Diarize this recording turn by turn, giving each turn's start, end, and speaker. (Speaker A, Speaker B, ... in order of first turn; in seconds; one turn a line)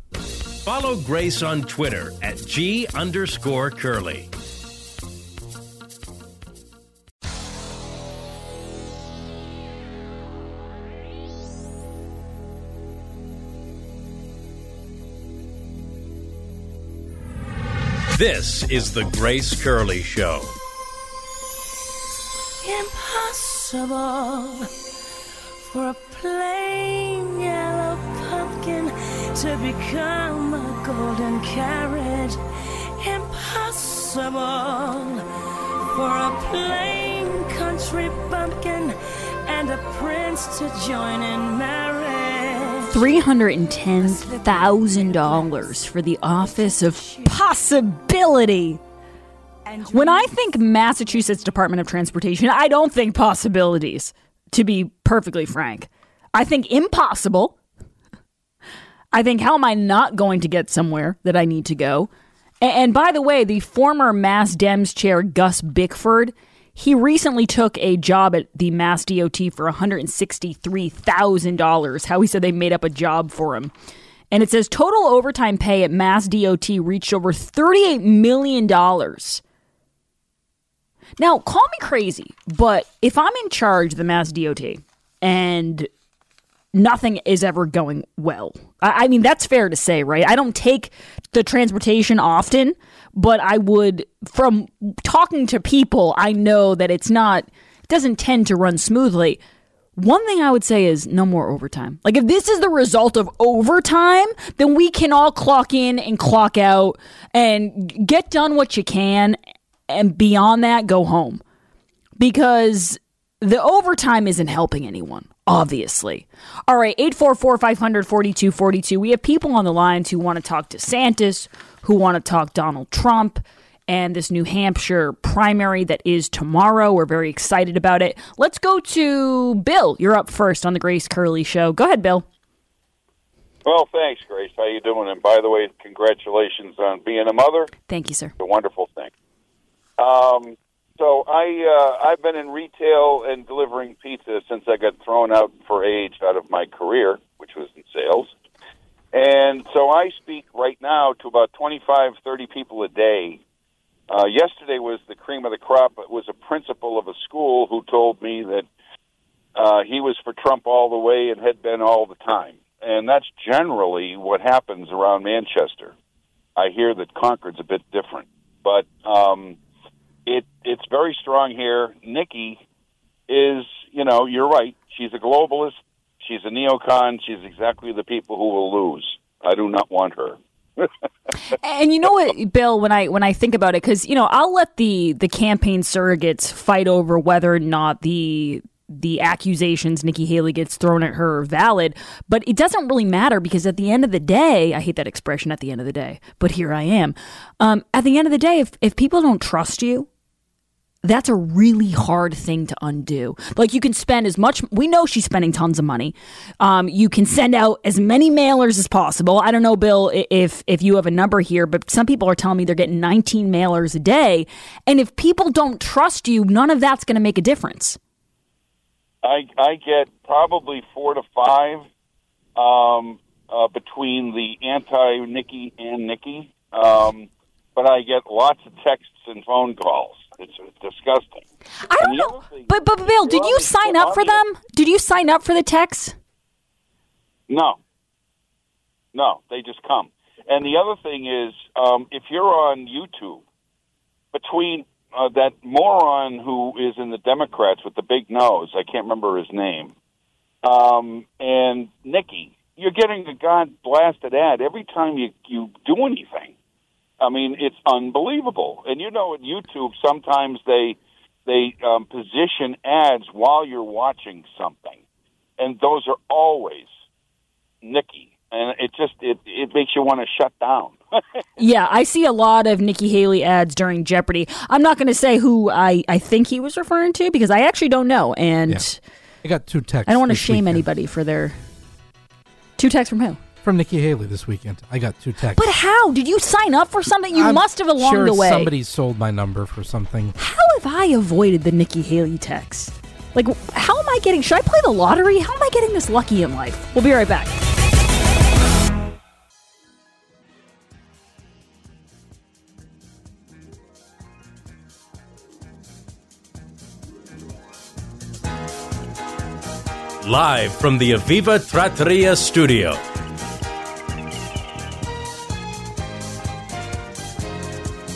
Speaker A: 0.6-4.3
Speaker A: 18.1-20.5
Speaker B: 22.6-24.7
Speaker B: 25.6-32.4
Speaker B: 33.0-35.2
Speaker B: 35.9-43.1
Speaker C: 42.9-48.8
Speaker B: 44.0-47.4
Speaker B: 49.7-51.1
Speaker C: 49.9-57.5
Speaker C: 59.1-62.1
Speaker C: 62.6-73.7
Speaker C: 74.3-79.4
Speaker C: 81.2-85.9
Speaker C: 86.7-99.4
Speaker C: 100.0-109.4
Speaker C: 109.9-111.4
Speaker C: 112.2-132.2
Speaker D: 133.6-137.7
Speaker C: 137.9-138.3
Speaker D: 138.4-139.1
Speaker D: 140.0-148.3
Speaker D: 149.1-153.4
Speaker D: 154.1-158.7
Speaker D: 159.6-165.9
Speaker D: 166.6-169.6
Speaker D: 170.2-172.6
Speaker D: 173.3-180.9
Speaker C: 181.5-200.1
Speaker C: 201.0-218.0
Speaker D: 219.2-221.8
Speaker D: 222.6-231.4
Speaker C: 231.8-236.2
Speaker D: 232.0-234.4
Speaker D: 237.5-237.8
Speaker D: 239.1-243.4
Speaker D: 244.3-249.9
Speaker D: 250.6-256.5
Speaker D: 257.2-265.0
Speaker D: 265.6-266.9
Speaker D: 267.8-271.0
Speaker C: 271.6-279.0
Speaker E: 279.4-280.8
Speaker C: 280.1-281.6
Speaker C: 282.8-283.4
Speaker E: 283.6-285.6
Speaker C: 285.6-288.7
Speaker E: 287.3-290.4
Speaker C: 290.4-297.5
Speaker A: 310.2-313.0